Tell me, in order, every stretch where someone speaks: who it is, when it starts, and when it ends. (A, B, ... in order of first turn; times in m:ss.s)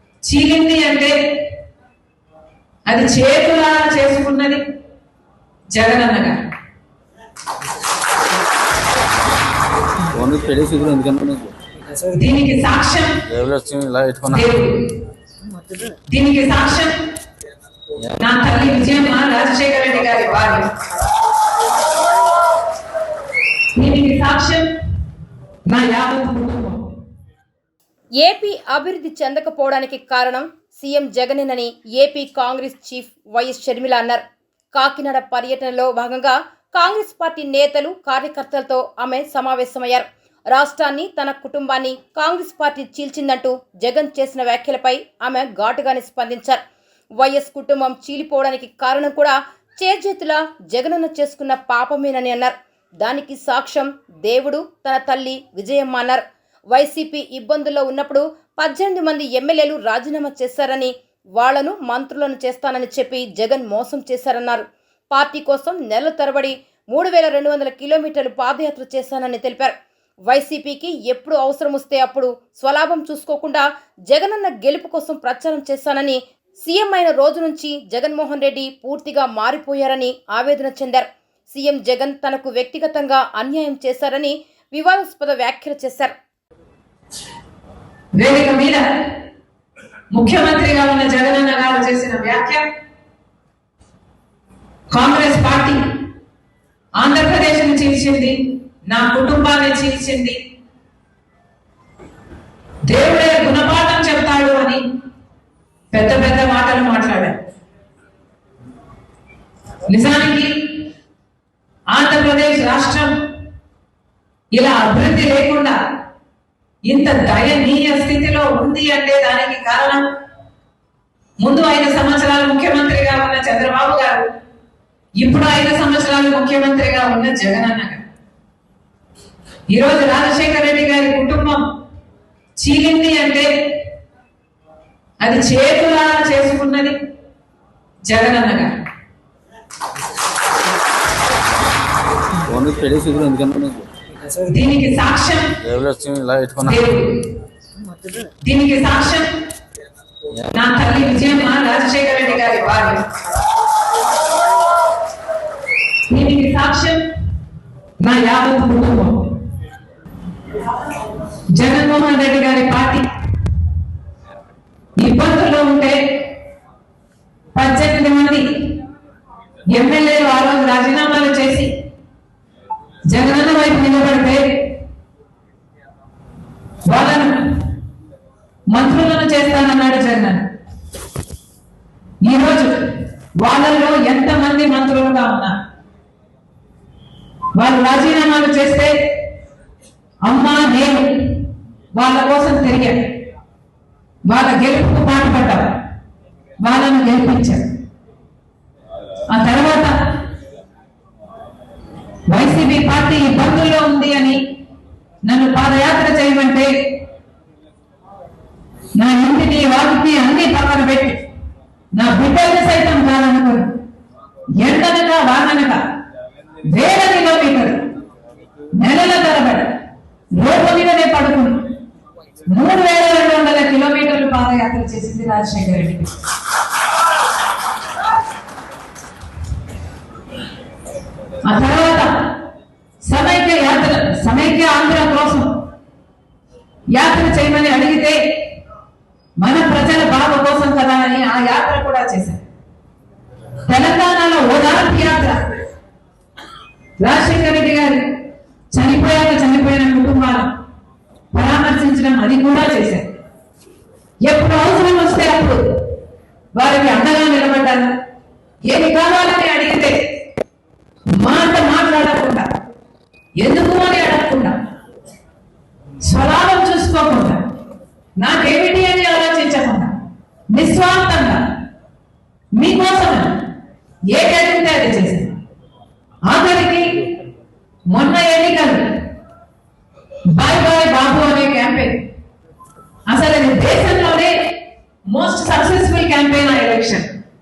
0:00.2-0:01.1 A
0:02.9-0:04.6 A
0:05.7-0:06.4 A
0:10.1-0:11.6 B
0:12.1-0:13.2 A
0:13.3-0:14.5 B
0:14.3-0:15.0 A
0:16.1-0:17.0 A
0:18.2-0:20.7 A
0:23.8-0:24.7 A
0:25.7-0:26.8 A
0:28.2-0:34.2 C
0:34.7-0:46.6 C
0:47.2-1:09.8 C
1:10.3-1:26.1 C
1:28.2-1:28.8 A
1:30.1-1:32.7 A
1:34.9-1:35.8 A
1:37.0-1:40.4 A
1:42.8-1:44.8 A
1:45.9-1:47.4 A
1:49.9-1:50.5 A
1:51.9-1:53.1 A
1:54.5-1:55.8 A
1:56.9-2:00.0 A
2:01.4-2:04.3 A
2:05.2-2:08.0 A
2:09.7-2:11.6 A
2:12.6-2:13.5 A
2:15.2-2:17.0 A
2:18.0-2:18.7 A
2:22.4-2:23.9 B
2:24.4-2:25.6 A
2:25.6-2:26.8 B
2:26.6-2:27.3 A
2:28.4-2:29.3 A
2:30.5-2:33.0 A
2:36.1-2:37.0 A
2:38.0-2:39.3 A
2:41.5-2:43.0 A
2:45.0-2:46.0 A
2:47.5-2:48.5 A
2:49.7-2:51.7 A
2:53.1-2:54.4 A
2:56.9-2:57.4 A
2:58.7-3:00.5 A
3:02.2-3:05.6 A
3:07.6-3:08.9 A
3:10.2-3:13.0 A
3:14.2-3:15.7 A
3:16.6-3:17.6 A
3:19.3-3:19.9 A
3:22.3-3:24.4 A
3:25.3-3:26.7 A
3:29.0-3:31.2 A
3:31.9-3:33.7 A
3:34.6-3:35.8 A
3:36.7-3:37.8 A
3:38.8-3:39.7 A
3:40.3-3:41.6 A
3:42.5-3:46.1 A
3:51.4-3:52.1 A
3:53.0-3:55.6 A
3:56.9-3:58.2 A
3:59.4-4:02.4 A
4:03.7-4:05.4 A
4:07.0-4:08.0 A
4:08.7-4:10.5 A
4:11.3-4:13.1 A
4:14.2-4:15.6 A
4:16.6-4:17.9 A
4:18.6-4:20.0 A
4:21.1-4:22.5 A
4:23.4-4:24.6 A
4:26.0-4:27.4 A
4:28.2-4:29.9 A
4:30.5-4:31.4 A
4:32.5-4:33.4 A
4:34.1-4:35.3 A
4:36.2-4:37.0 A
4:37.9-4:39.0 A
4:40.3-4:42.0 A
4:43.1-4:44.6 A
4:45.1-4:47.1 A